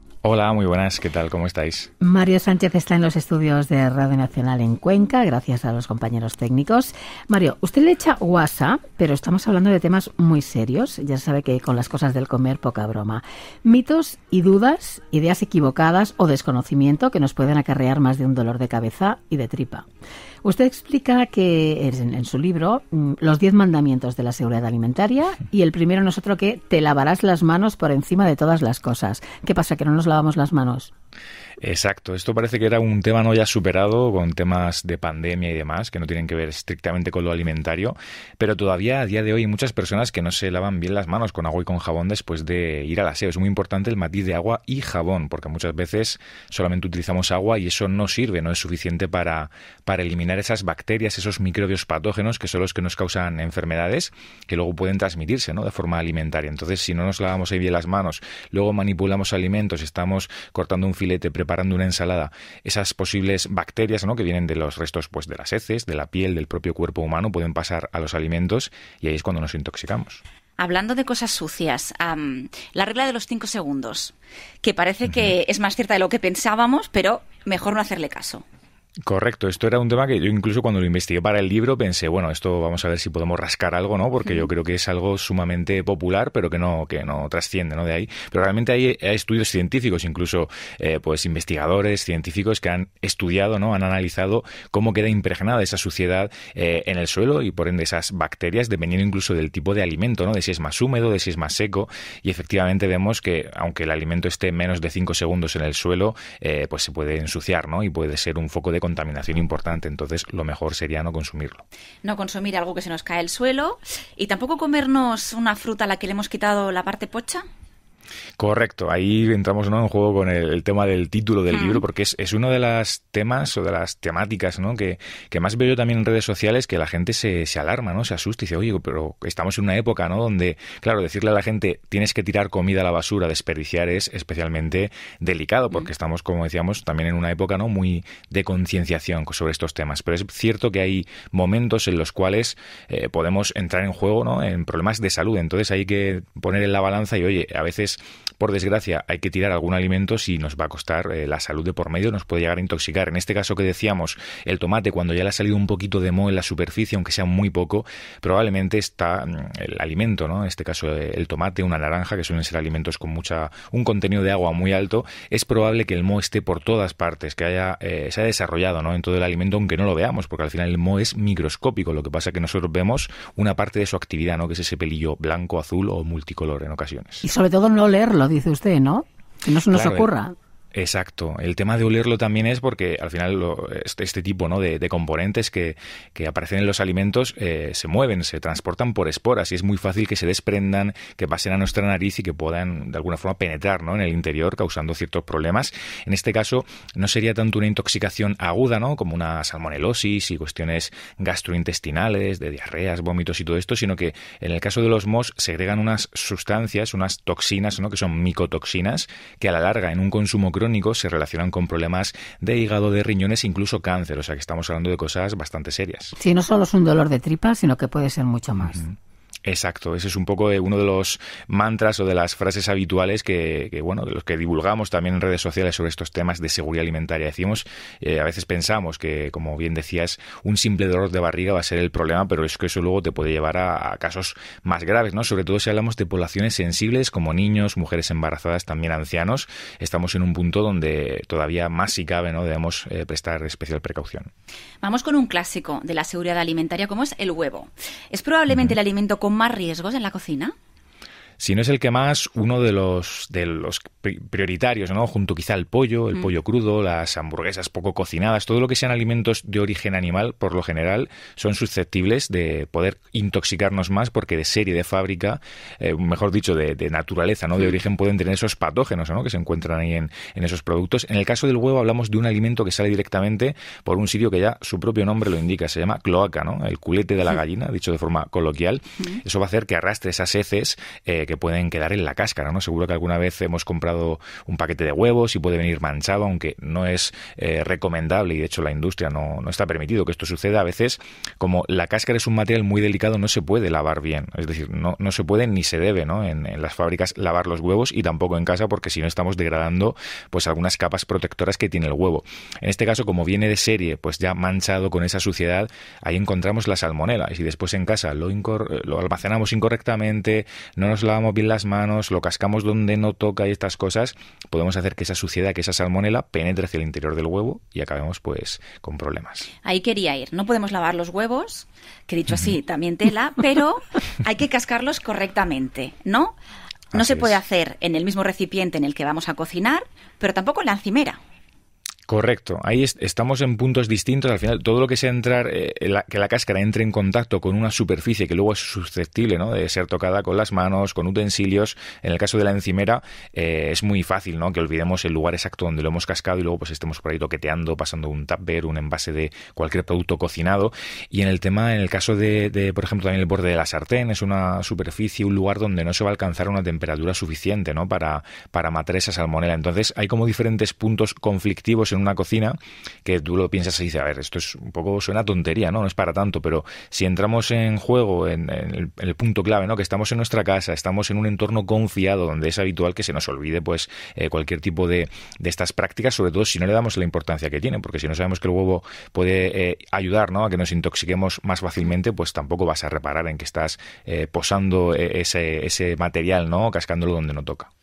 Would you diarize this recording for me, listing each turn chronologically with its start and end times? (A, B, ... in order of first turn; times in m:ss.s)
0:00.2-0:01.9 A
0:02.0-0:19.9 B
0:20.4-0:30.9 B
0:31.6-1:10.2 A
1:10.6-1:18.4 C
1:15.1-1:15.3 A
1:19.0-1:51.6 A
1:52.0-1:57.4 C
1:58.4-2:57.2 A
2:57.2-3:00.3 B
2:59.7-3:00.1 A
3:00.7-3:36.1 A
3:36.2-3:38.8 B
3:38.7-4:04.3 A
4:04.8-4:10.5 C
4:08.5-4:08.8 A
4:11.4-5:19.5 A
5:19.6-5:26.4 C
5:26.9-5:27.3 A
5:26.9-5:31.2 C
5:32.1-6:27.7 A